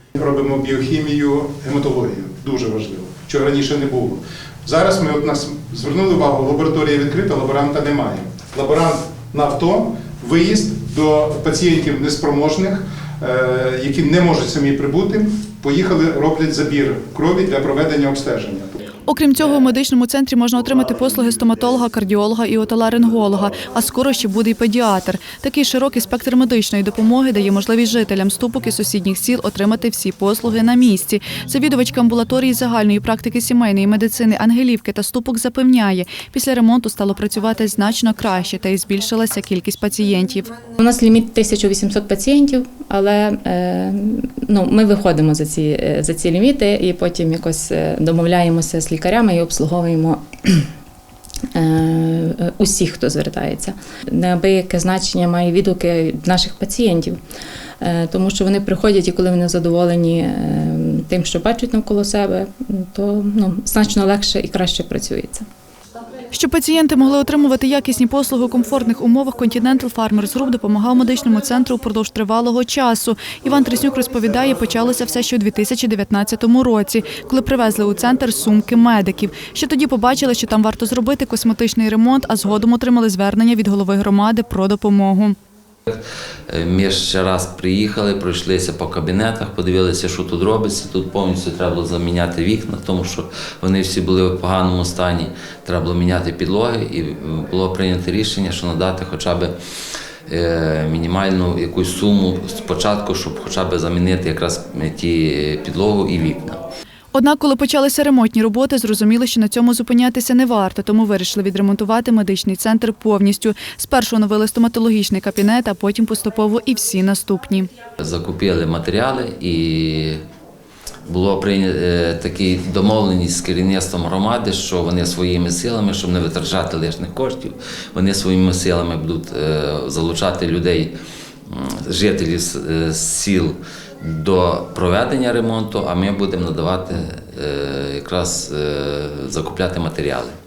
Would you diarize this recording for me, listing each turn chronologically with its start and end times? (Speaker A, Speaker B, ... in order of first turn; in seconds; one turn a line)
Speaker A: 0.1-18.7
Speaker B: 19.1-40.6
Speaker C: 40.8-50.7
Speaker C: 51.5-57.2
Speaker C: 57.8-65.5
Speaker B: 66.3-85.4
Speaker D: 85.9-99.5
Speaker D: 100.3-106.6
Speaker B: 107.1-117.7
Speaker D: 118.0-120.2
Speaker D: 121.1-130.9
Speaker D: 131.5-140.3